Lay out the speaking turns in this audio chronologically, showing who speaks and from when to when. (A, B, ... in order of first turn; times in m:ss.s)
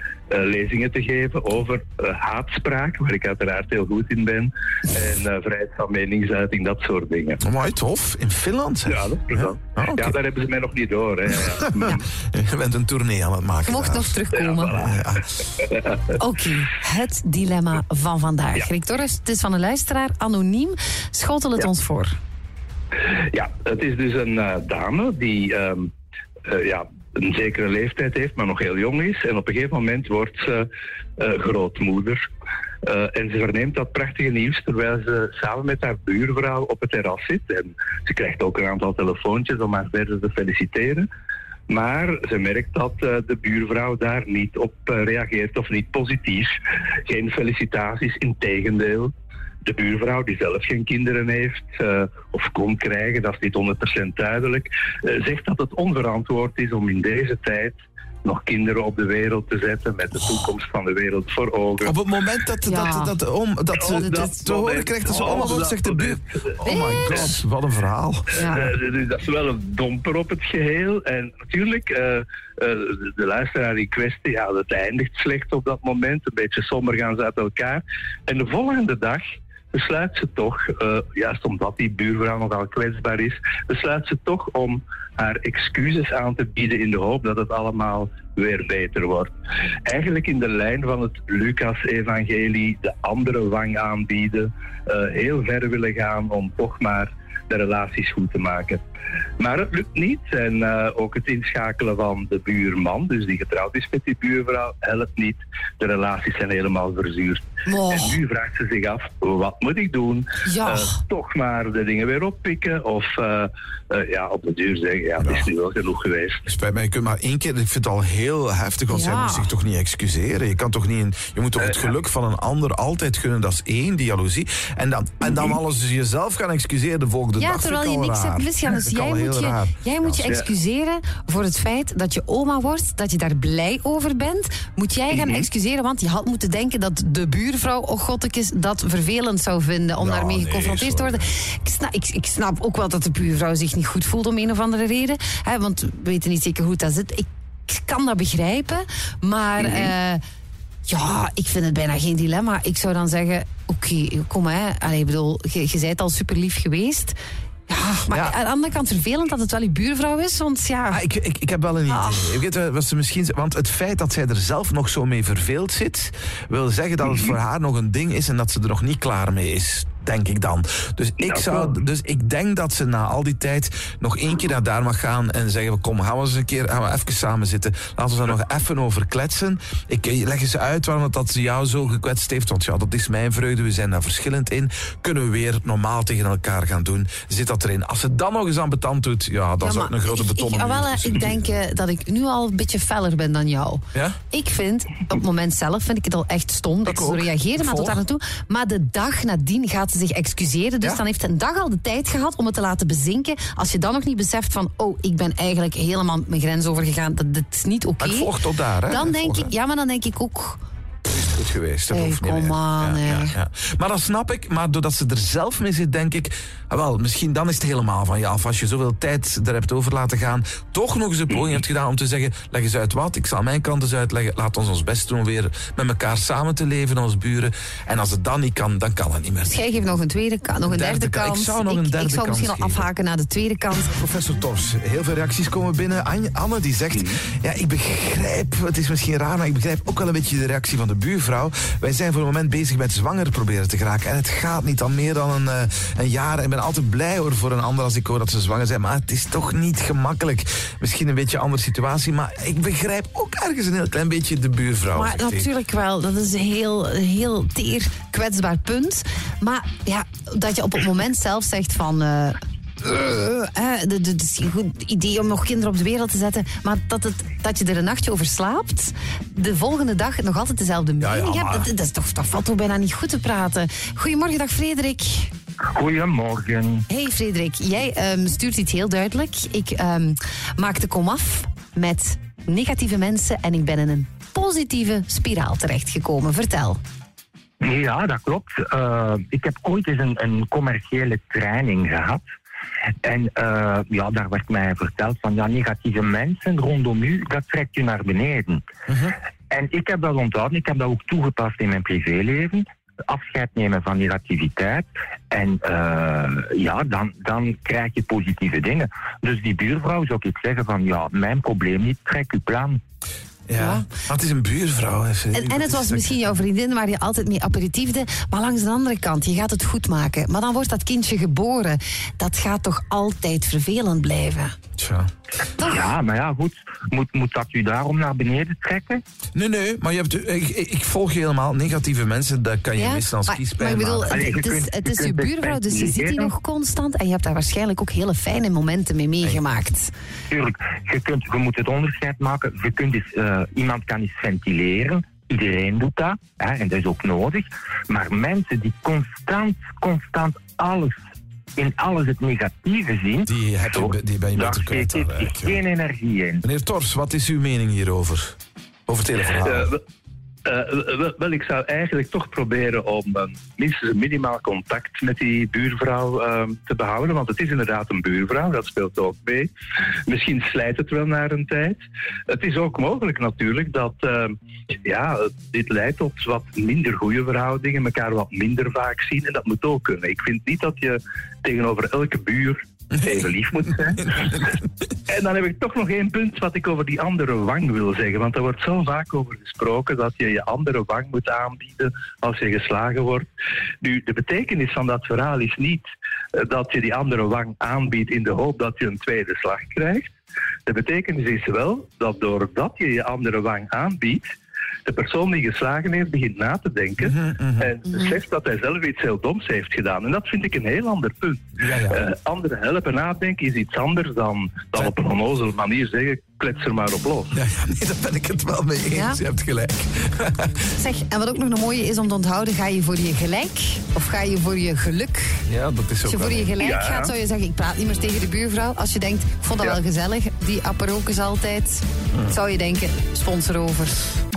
0:00.3-0:07.4 A
0:07.4-0:10.2 B
0:08.9-0:12.0 A
0:11.6-0:15.3 B
0:13.6-0:14.7 C
0:14.3-0:16.1 A
0:16.2-0:22.2 C
0:23.1-0:25.9 A
0:26.4-0:32.2 A
0:32.8-0:41.1 A
0:41.7-0:46.5 A
0:47.0-0:49.1 A
0:49.6-1:01.9 A
1:01.8-1:08.5 B
1:02.6-1:03.2 C
1:03.8-1:07.3 A
1:06.6-1:07.4 C
1:08.3-1:08.6 C
1:08.4-1:29.3 A
1:29.8-1:38.8 A
1:39.4-1:56.4 A
1:47.6-1:48.2 C
1:50.4-1:50.9 C
1:55.2-1:55.5 B
1:56.5-2:10.4 B
1:58.9-1:59.5 C
2:01.6-2:01.9 A
2:05.3-2:05.6 A
2:07.4-2:30.2 C
2:15.1-2:15.4 A
2:20.0-2:21.2 B
2:29.6-2:29.9 B
2:30.8-2:37.2 C
2:37.7-2:41.0 C
2:38.1-2:38.3 B
2:40.9-3:11.5 B
2:41.9-2:42.4 C
2:51.2-2:51.7 A
3:09.6-3:28.3 C
3:16.8-3:18.0 B
3:28.0-3:29.5 B
3:28.9-3:30.6 C
3:31.0-3:49.6 B
3:31.9-3:33.3 C
3:41.3-3:41.6 A
3:49.4-3:54.0 C
3:50.6-3:52.9 B
3:53.9-4:15.5 B
3:56.9-3:57.2 A
4:14.9-4:35.3 C
4:31.0-4:31.6 B
4:35.7-4:36.8 D
4:36.9-4:46.8 C
4:47.6-4:52.2 D
4:53.0-4:58.7 D
4:58.9-4:59.1 B
4:59.5-5:12.8 D
5:13.5-5:16.4 B
5:13.6-5:13.9 C
5:15.3-5:24.5 C
5:24.8-5:25.1 B
5:25.6-5:29.0 D
5:25.6-5:25.9 C
5:29.3-5:34.2 B
5:32.8-5:39.9 C
5:34.1-5:36.3 D
5:40.3-5:50.9 D
5:51.6-5:56.4 D
5:53.2-5:55.6 B
5:56.4-5:58.3 B
5:58.9-5:59.7 B
5:59.4-5:59.8 A
6:00.4-6:09.5 A
6:10.1-6:14.3 A
6:14.8-6:24.4 A
6:22.9-6:24.7 B
6:25.1-6:33.3 A
6:33.8-6:40.1 A
6:40.6-6:44.3 A
6:44.8-6:57.3 A
6:47.0-6:47.7 B
6:51.6-6:52.0 B
6:57.3-7:00.5 B
6:58.9-6:59.2 C
7:00.8-7:05.4 C
7:05.4-7:06.6 B
7:06.0-7:14.0 C
7:06.6-7:07.1 A